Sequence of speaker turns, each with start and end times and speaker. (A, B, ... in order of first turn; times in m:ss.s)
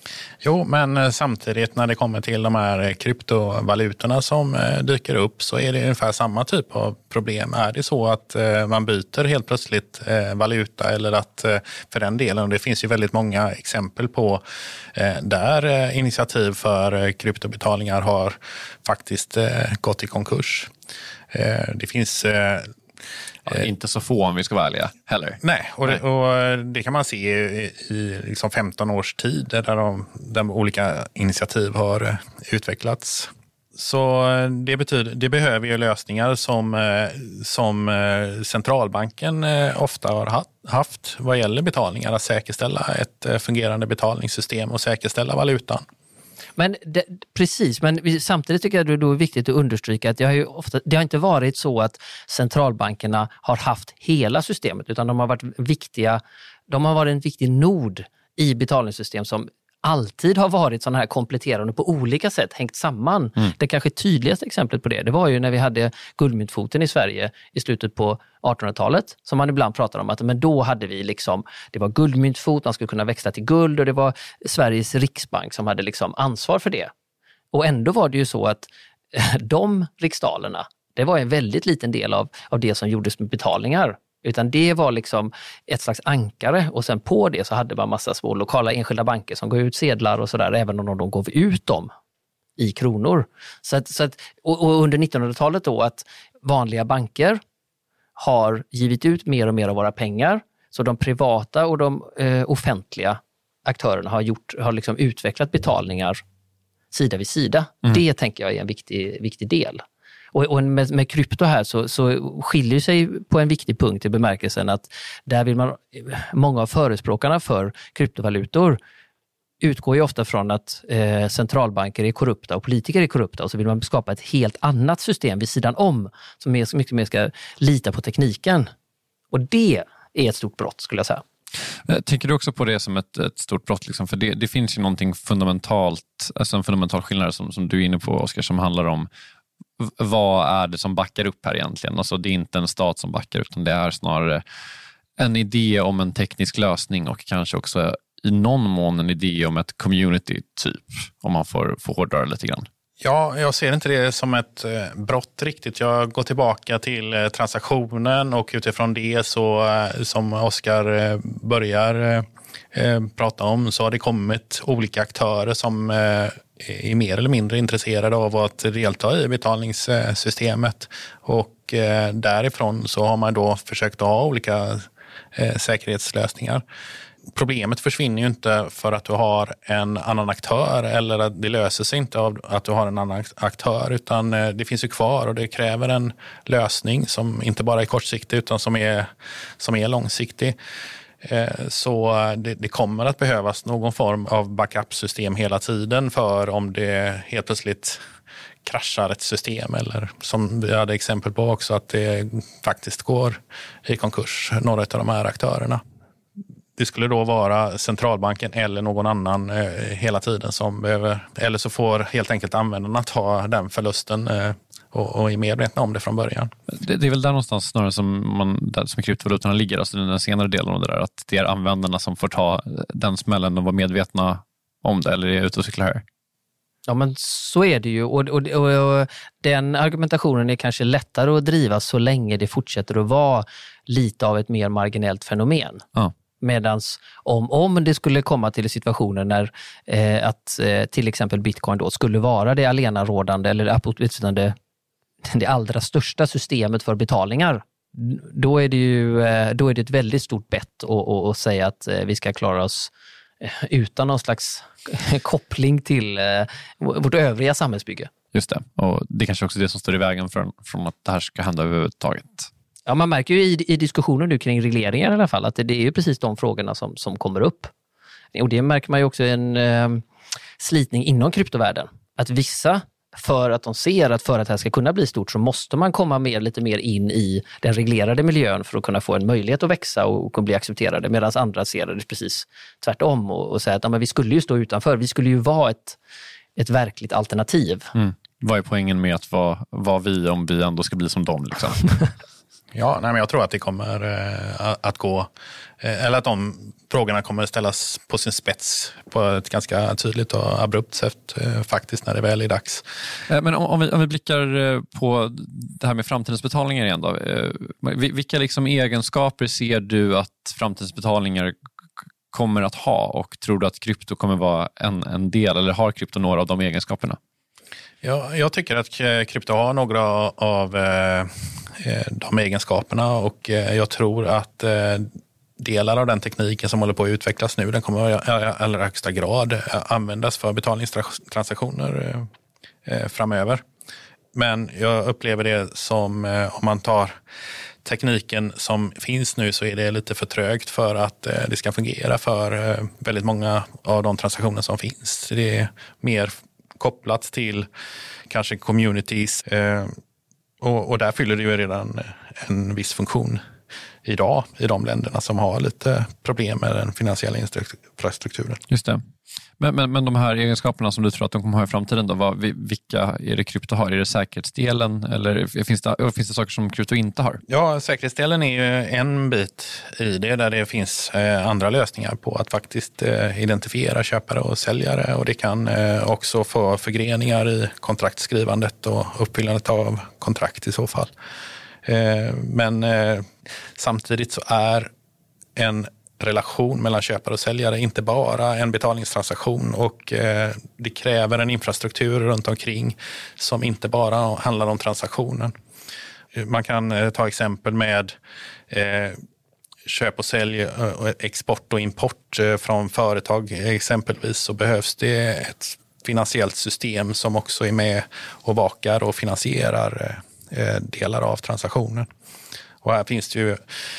0:00.4-0:14.4 A
0:14.9-0:20.7 A
0:21.3-0:22.7 A
0:23.5-0:25.4 B
0:25.4-0:45.8 A
0:46.6-1:16.9 C
1:17.5-1:31.9 C
1:32.6-1:37.4 C
1:38.2-1:46.2 C
1:46.9-1:49.8 C
1:50.3-1:58.8 C
1:59.6-2:08.7 C
2:09.3-2:11.2 C
2:11.9-2:19.1 B
2:19.8-2:24.4 B
2:25.2-2:32.7 B
2:33.0-2:56.6 A
2:57.3-3:10.6 A
3:11.2-3:18.0 A
3:18.6-3:25.8 A
3:26.8-3:36.5 A
3:36.7-3:46.0 B
3:46.9-3:55.8 C
3:56.4-4:04.6 C
4:05.2-4:12.9 C
4:13.4-4:18.1 C
4:18.3-4:22.5 B
4:22.9-4:27.7 C
4:28.3-4:30.0 C
4:30.6-4:46.0 C
4:46.6-4:47.9 C
4:48.0-4:52.0 B
4:52.7-4:55.3 A
4:55.8-5:02.8 A
5:03.3-5:11.5 B
5:12.3-5:17.2 B
5:18.0-5:32.3 A
5:32.9-5:33.6 A
5:34.3-5:37.2 A
5:37.8-5:47.7 A
5:48.3-5:50.0 A
5:50.6-5:53.4 A
5:54.0-5:58.6 A
5:58.7-5:59.0 B
5:59.6-6:07.4 B
6:07.5-6:21.1 A
6:21.8-6:24.9 A
6:25.6-6:35.5 A
6:36.4-6:38.2 A
6:38.7-6:39.2 A
6:39.9-6:52.1 A
6:52.8-6:53.6 A